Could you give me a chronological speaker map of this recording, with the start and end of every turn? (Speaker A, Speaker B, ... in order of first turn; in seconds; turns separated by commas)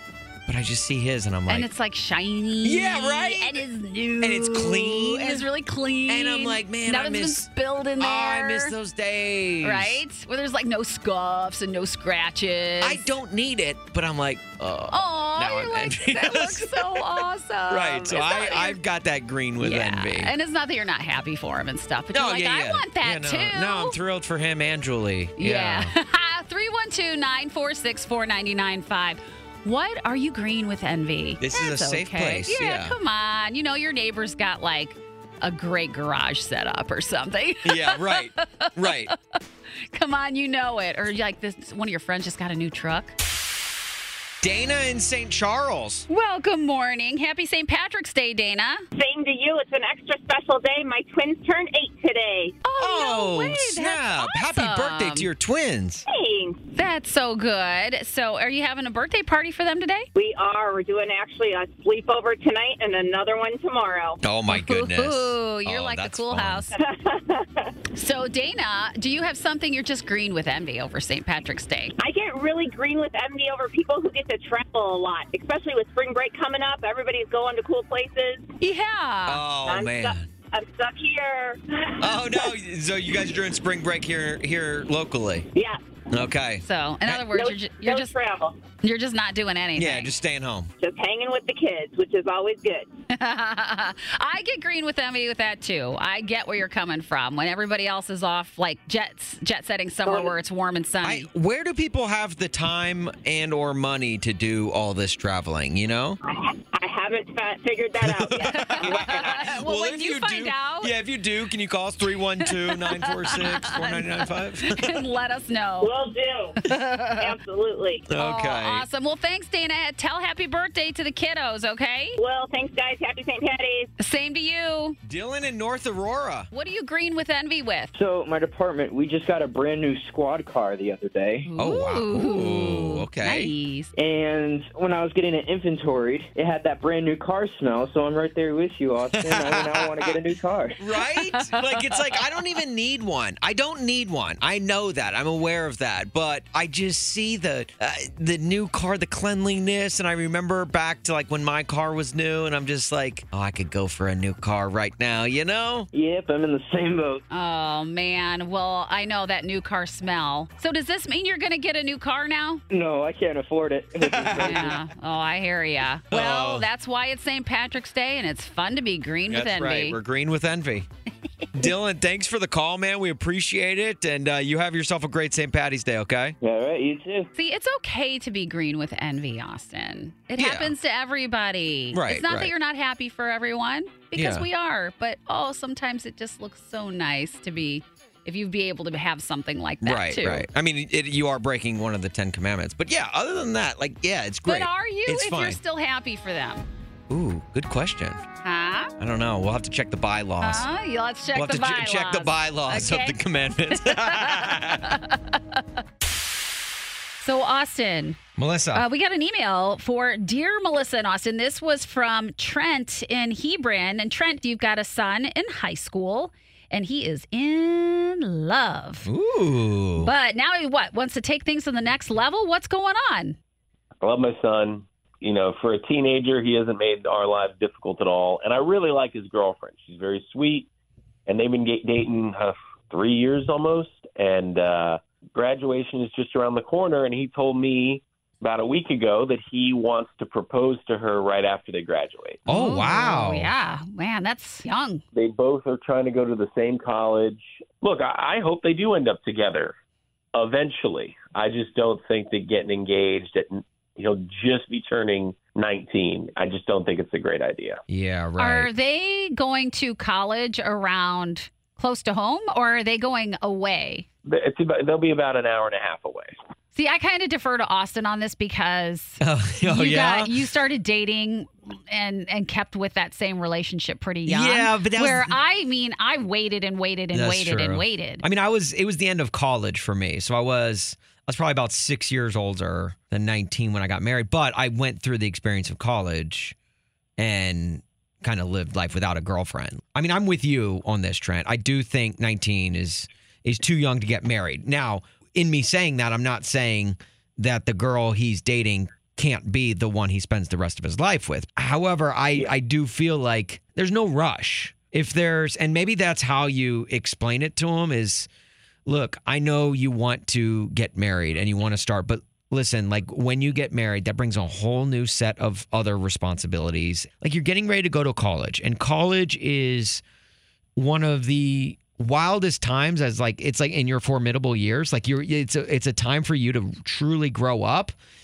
Speaker A: 0.5-1.7, Speaker B: 1.5-8.7, Speaker A: 2.6-3.6, Speaker A: 4.2-5.5, Speaker A: 6.1-10.0, Speaker B: 9.6-13.0, Speaker A: 12.8-17.0, Speaker B: 14.9-18.8, Speaker A: 17.7-20.3, Speaker B: 19.6-23.9, Speaker A: 22.1-25.9, Speaker B: 25.4-38.9, Speaker A: 31.4-32.9, Speaker A: 37.6-39.1, Speaker B: 39.9-43.1, Speaker A: 44.4-46.1, Speaker B: 46.1-48.8, Speaker C: 49.0-52.6, Speaker B: 52.6-55.3, Speaker A: 52.8-56.0, Speaker C: 56.1-56.6, Speaker B: 56.8-60.1, Speaker C: 60.2-64.2, Speaker A: 64.2-66.7, Speaker B: 64.5-66.8, Speaker C: 66.8-67.7, Speaker B: 67.9-71.9, Speaker C: 72.0-78.5, Speaker B: 78.6-79.4, Speaker A: 79.3-80.3, Speaker C: 79.7-82.5, Speaker A: 82.0-85.5, Speaker A: 86.1-87.2, Speaker B: 86.6-88.1, Speaker C: 87.3-88.6, Speaker B: 88.8-90.1, Speaker A: 89.8-90.7, Speaker C: 90.8-92.9, Speaker B: 93.1-101.3, Speaker C: 100.1-100.3, Speaker A: 101.0-106.2, Speaker C: 106.6-109.2, Speaker A: 108.0-115.0, Speaker B: 108.5-110.9, Speaker B: 112.5-115.9, Speaker C: 115.8-116.5, Speaker B: 116.7-117.3, Speaker C: 117.2-118.0, Speaker A: 118.1-118.8, Speaker B: 118.2-122.2, Speaker C: 122.2-123.9, Speaker B: 124.0-125.0, Speaker A: 125.0-126.5, Speaker B: 126.5-127.9, Speaker D: 127.9-131.5, Speaker B: 131.5-133.9, Speaker A: 131.6-133.5, Speaker D: 134.0-140.8, Speaker A: 139.1-140.2, Speaker A: 140.8-155.9, Speaker B: 141.0-141.9, Speaker D: 155.9-157.2, Speaker B: 157.3-162.6, Speaker D: 162.7-164.8, Speaker A: 164.0-164.7, Speaker B: 164.4-170.0, Speaker A: 166.1-166.7, Speaker A: 169.3-170.9, Speaker A: 171.6-176.4, Speaker D: 176.4-177.3, Speaker B: 177.3-190.5, Speaker A: 180.4-180.7, Speaker A: 181.9-182.5, Speaker A: 184.1-184.5, Speaker A: 189.8-195.6, Speaker B: 194.5-196.7, Speaker A: 197.1-198.2, Speaker B: 198.4-198.9, Speaker A: 199.0-200.7, Speaker B: 200.4-203.2, Speaker A: 201.3-204.9, Speaker B: 203.8-205.6, Speaker B: 207.2-208.2, Speaker A: 208.4-208.8, Speaker B: 208.7-219.1, Speaker A: 219.1-220.1, Speaker B: 220.0-223.4, Speaker E: 224.0-230.7, Speaker E: 231.3-242.4, Speaker A: 242.5-243.5, Speaker B: 242.5-245.0, Speaker E: 245.1-249.8, Speaker E: 250.3-257.8, Speaker A: 257.9-258.7, Speaker B: 258.4-264.1, Speaker E: 264.3-266.3, Speaker B: 266.7-278.2, Speaker A: 269.2-270.3, Speaker A: 274.3-275.4, Speaker A: 277.1-286.6, Speaker A: 287.2-308.3, Speaker A: 308.9-320.0, Speaker A: 320.8-327.9